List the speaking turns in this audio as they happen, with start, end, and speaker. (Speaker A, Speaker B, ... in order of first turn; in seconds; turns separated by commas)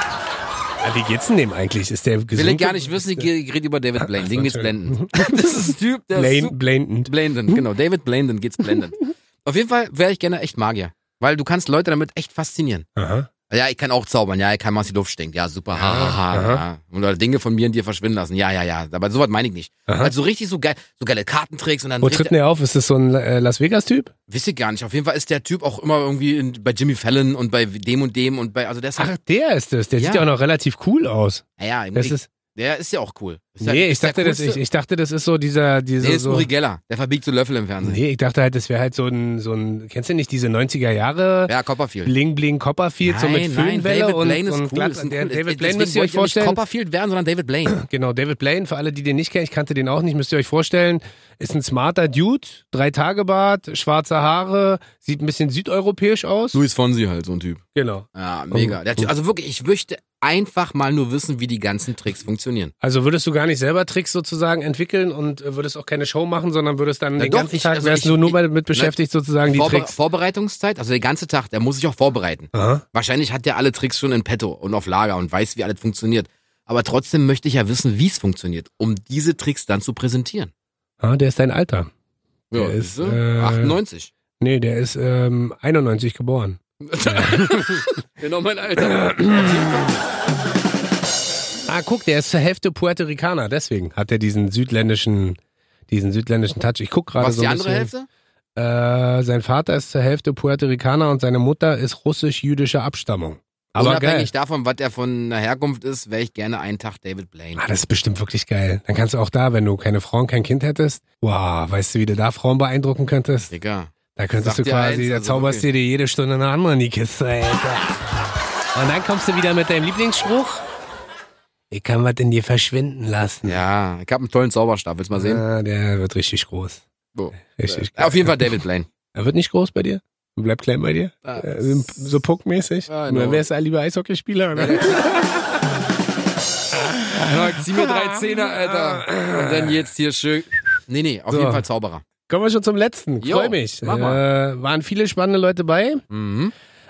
Speaker A: 0.8-3.3, Speaker B: 2.3-6.5, Speaker A: 4.0-7.6, Speaker B: 7.0-12.9, Speaker A: 12.9-13.3, Speaker B: 13.5-22.3, Speaker A: 15.7-16.6, Speaker A: 19.9-20.1, Speaker A: 22.0-24.1, Speaker B: 24.3-29.1, Speaker A: 29.0-32.3, Speaker B: 30.0-30.3, Speaker B: 31.6-34.6, Speaker A: 33.6-36.5, Speaker B: 36.0-38.0, Speaker A: 37.8-41.5, Speaker B: 41.5-42.1, Speaker A: 42.0-46.6, Speaker B: 43.0-47.8, Speaker A: 47.7-56.6, Speaker B: 56.5-57.6, Speaker A: 57.7-59.1, Speaker B: 58.1-62.7, Speaker A: 62.8-70.0, Speaker B: 67.2-68.9, Speaker B: 69.4-80.5, Speaker A: 72.5-72.8, Speaker A: 81.0-81.9, Speaker B: 82.5-84.1, Speaker A: 82.5-83.8, Speaker A: 84.4-87.8, Speaker B: 86.8-90.0, Speaker A: 88.8-89.9, Speaker A: 91.7-97.9, Speaker B: 97.2-98.1, Speaker A: 98.5-104.3, Speaker B: 103.8-107.6, Speaker A: 107.6-113.5, Speaker B: 113.5-115.7, Speaker A: 114.1-118.0, Speaker A: 118.7-120.6, Speaker A: 121.7-123.6, Speaker B: 123.4-125.4, Speaker A: 125.2-126.8, Speaker B: 127.1-128.9, Speaker A: 127.6-128.4, Speaker A: 129.1-135.5, Speaker B: 131.2-132.1, Speaker B: 132.9-133.4, Speaker B: 134.5-135.2, Speaker A: 136.7-139.8, Speaker B: 137.2-142.0, Speaker A: 141.3-141.6, Speaker A: 142.3-146.0, Speaker B: 143.2-144.2, Speaker B: 146.1-146.5